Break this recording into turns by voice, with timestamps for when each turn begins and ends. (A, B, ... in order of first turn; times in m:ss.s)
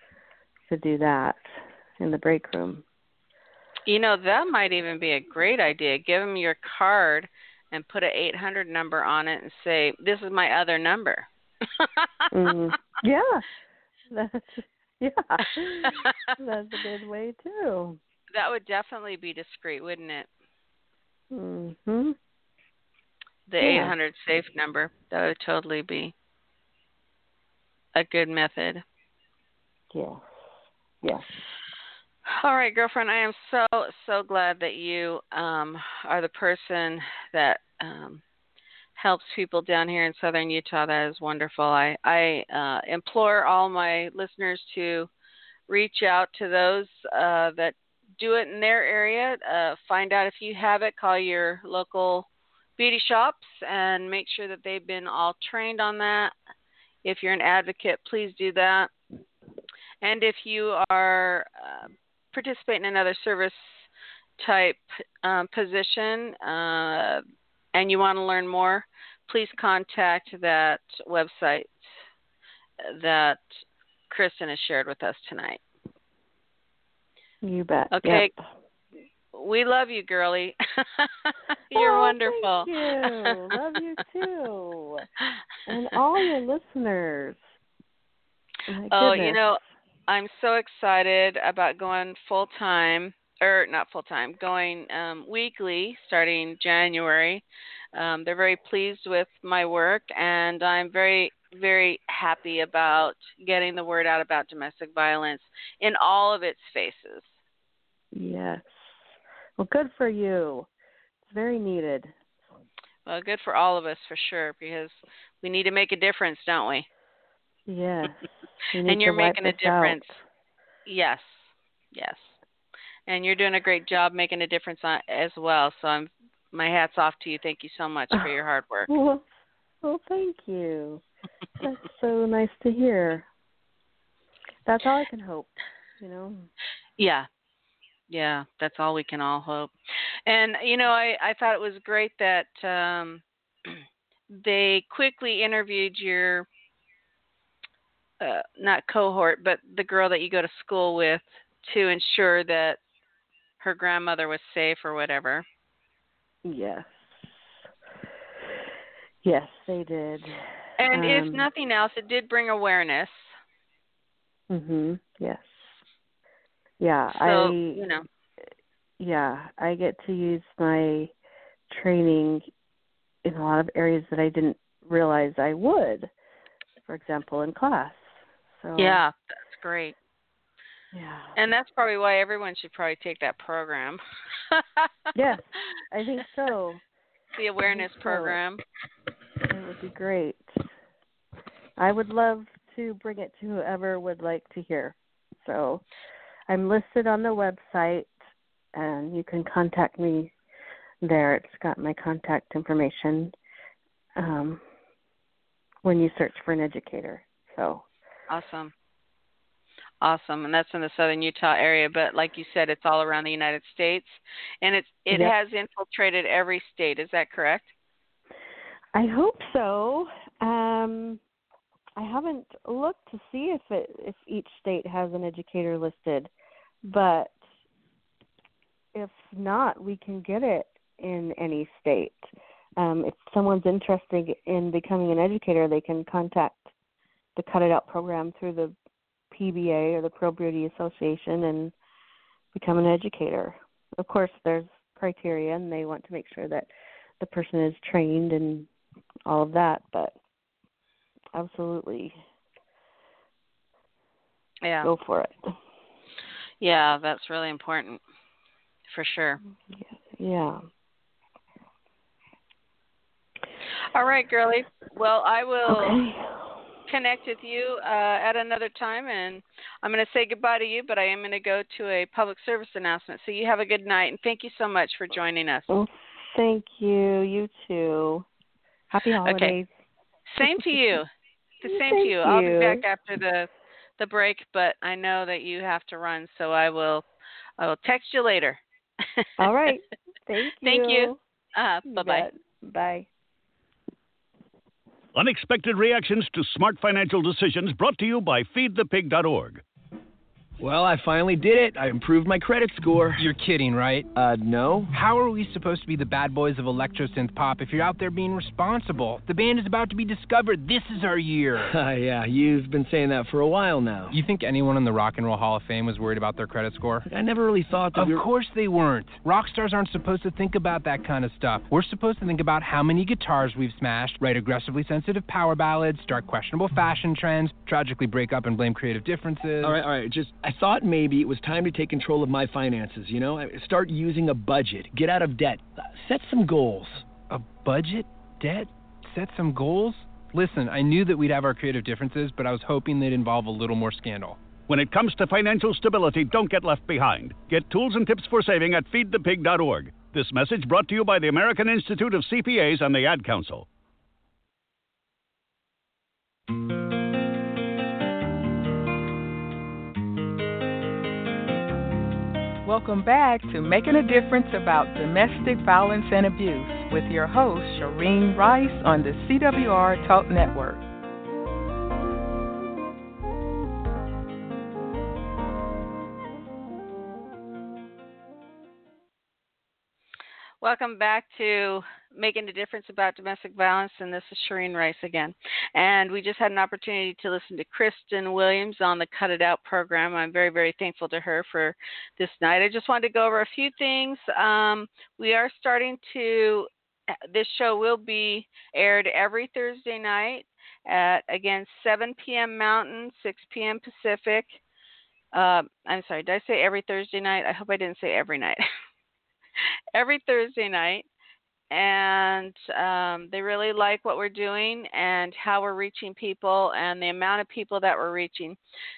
0:00.7-0:01.5 A
0:02.0-0:02.8 A
0:03.9-0:11.3 B
0:11.8-0:12.1 B
0:12.3-0:13.5 A
0:14.1-0:18.0 A
0:15.8-0:16.3 B
0:18.3-0:20.3 B
0:21.3-0:22.2 A
0:23.5-0:26.1 B
0:23.6-0:23.9 A
0:28.0-0:28.8 B
0:29.9-0:30.4 A
0:31.0-0:31.3 A
0:32.4-0:38.2 B
0:39.0-0:45.1 B
0:45.7-0:56.3 B
0:57.0-0:58.9 B
1:00.0-1:07.2 B
1:07.7-1:11.9 B
1:12.8-1:15.6 B
1:17.4-1:18.4 A
1:17.9-1:18.3 B
1:19.3-1:23.4 B
1:21.7-1:25.1 A
1:25.7-1:27.4 A
1:28.7-1:29.4 A
1:28.9-1:37.4 B
1:38.0-1:47.4 B
1:48.1-1:49.0 A
1:49.6-1:50.7 A
1:51.2-1:52.2 A
1:53.1-1:56.9 B
1:57.7-2:00.2 A
1:58.9-2:00.2 B
2:00.9-2:02.4 B
2:03.1-2:08.9 B
2:08.9-2:09.3 A
2:09.8-2:11.0 A
2:11.6-2:13.3 A
2:14.7-2:16.5 A
2:17.0-2:17.3 B
2:18.1-2:19.7 B
2:20.3-2:26.5 B
2:28.2-2:32.8 B
2:33.6-2:35.5 B
2:36.4-2:37.6 A
2:39.2-2:41.5 A
2:40.8-2:43.3 B
2:44.5-2:45.8 A
2:46.8-2:47.9 A
2:47.1-2:48.1 B
2:49.0-2:51.1 A
2:51.7-2:52.5 A
2:53.2-2:56.1 A
2:56.9-2:59.0 A
2:58.8-3:00.0 B
3:00.9-3:01.4 A
3:01.4-3:04.0 B
3:04.5-3:04.9 B
3:05.2-3:06.8 A
3:07.4-3:08.6 B
3:07.6-3:08.4 A
3:09.5-3:10.6 A
3:11.8-3:15.8 A
3:16.5-3:18.1 A
3:18.7-3:20.3 A
3:21.0-3:23.4 A
3:24.2-3:24.6 A
3:25.8-3:27.9 A
3:28.3-3:28.7 B
3:30.0-3:37.7 B
3:38.9-3:41.2 A
3:42.0-3:46.3 A
3:46.8-3:47.4 A
3:48.9-3:56.7 A
3:57.4-3:58.8 A
3:59.3-4:01.7 A
4:02.5-4:06.7 A
4:07.2-4:08.7 A
4:09.3-4:10.2 A
4:11.3-4:12.2 A
4:14.6-4:14.9 B
4:14.8-4:15.5 A
4:16.6-4:18.0 B
4:18.9-4:19.4 B
4:19.7-4:20.6 A
4:23.9-4:26.0 B
4:25.7-4:26.4 A
4:26.9-4:35.7 B
4:35.7-4:38.3 A
4:38.9-4:39.7 A
4:39.2-4:39.6 B
4:40.3-4:41.1 B
4:40.4-4:40.8 A
4:41.6-4:47.1 B
4:41.6-4:42.8 A
4:47.6-4:49.5 B
4:49.4-4:51.2 A
4:50.6-4:52.3 B
4:51.9-4:53.1 A
4:55.1-4:59.6 C
5:00.6-5:03.2 D
5:03.2-5:04.1 E
5:04.2-5:04.9 D
5:04.9-5:11.8 E
5:11.6-5:14.2 D
5:14.1-5:17.1 E
5:17.1-5:18.3 D
5:18.0-5:29.8 E
5:29.6-5:37.0 D
5:37.3-5:44.4 E
5:44.7-5:53.7 C
6:02.6-6:10.8 F
6:20.6-6:36.7 B
6:37.3-6:44.6 B
6:45.3-6:48.6 B
6:49.9-6:51.1 B
6:51.7-6:58.6 B